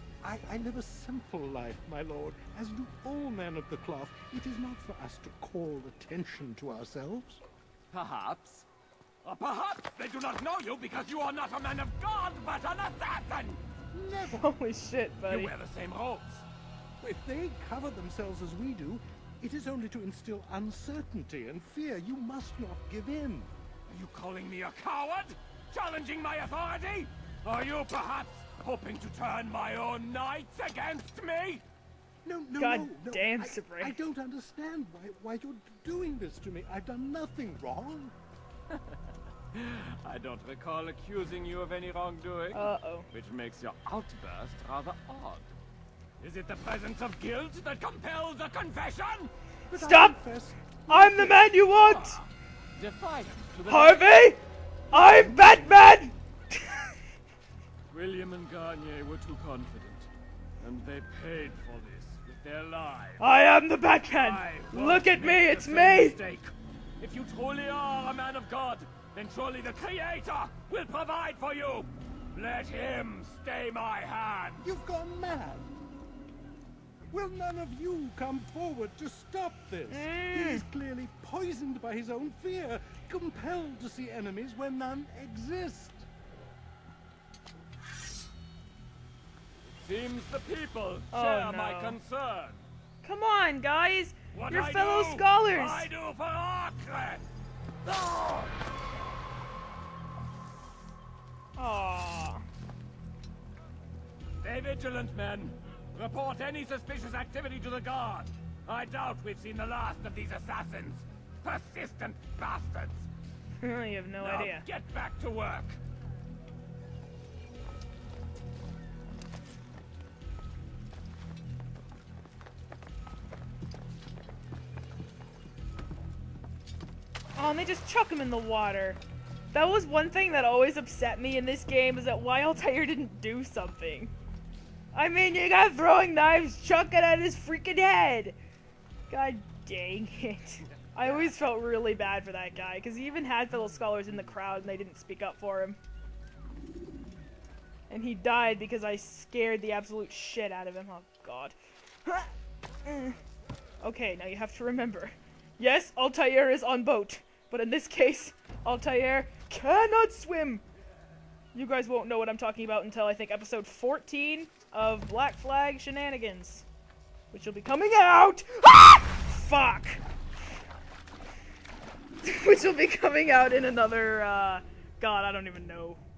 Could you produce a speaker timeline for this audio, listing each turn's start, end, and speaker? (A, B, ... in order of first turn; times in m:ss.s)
0:00.2-0:07.4 A
0:07.9-0:08.6 B
0:09.2-0:13.6 B
0:13.9-0:14.4 A
0:14.2-0:15.5 C
0:15.3-0:16.4 B
0:17.0-0:23.5 A
0:23.9-0:31.6 B
0:32.2-0:38.1 A
0:32.5-0:34.0 C
0:39.5-0:45.4 B
0:42.5-0:43.1 C
0:46.2-0:49.3 B
0:49.7-0:51.3 A
0:49.7-0:50.2 C
0:50.9-0:52.2 C
0:51.7-0:54.1 B
0:53.7-0:56.9 C
0:57.9-1:00.1 B
1:00.6-1:03.2 B
1:03.2-1:06.2 C
1:04.0-1:14.6 B
1:14.6-1:15.7 A
1:17.1-1:26.1 A
1:19.9-1:20.7 C
1:29.8-1:32.6 B
1:31.1-1:32.0 C
1:33.0-1:35.9 C
1:34.3-1:37.2 B
1:41.6-1:42.4 C
1:44.4-1:53.1 B
1:53.6-1:54.6 C
1:54.2-1:55.8 B
2:07.3-2:09.0 C
2:09.5-2:14.1 C
2:14.9-2:18.4 C
2:19.1-2:25.8 C
2:27.9-2:32.3 C
2:32.8-2:33.2 C
2:33.8-2:40.6 C
2:41.5-2:46.6 C
2:47.3-2:50.0 C
2:52.2-2:56.0 C